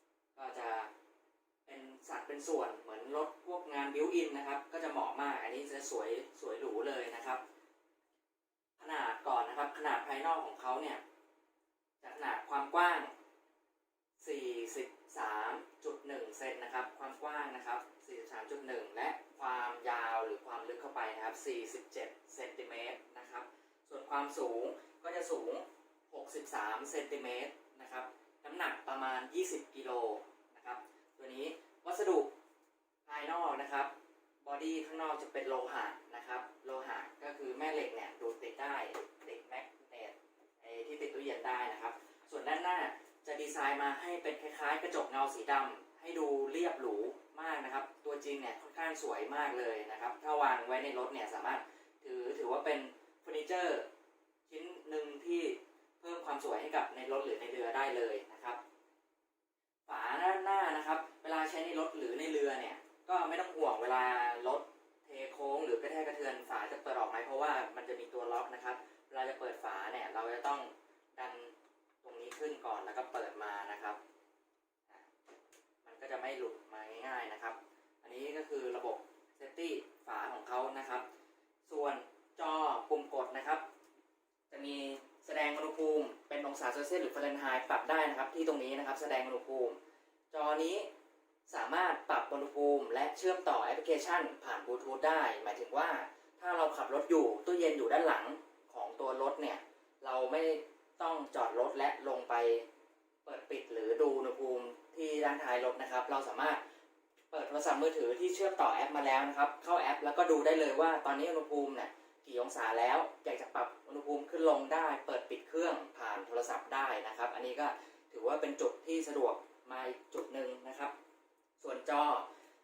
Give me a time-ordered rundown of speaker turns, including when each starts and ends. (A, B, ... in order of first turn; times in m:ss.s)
0:00.4-0:00.9 A
0:01.6-0:07.4 A
0:08.8-0:11.0 A
0:12.0-0:13.1 A
0:14.2-0:32.3 A
0:33.0-0:33.9 A
0:34.4-0:53.9 A
0:54.5-0:58.6 A
0:59.9-1:14.0 A
1:15.8-1:21.1 A
1:21.7-1:23.6 A
1:24.5-1:29.8 A
1:30.3-1:30.9 A
1:31.5-1:42.7 A
1:43.2-1:46.6 A
1:47.3-2:00.9 A
2:01.6-2:02.3 A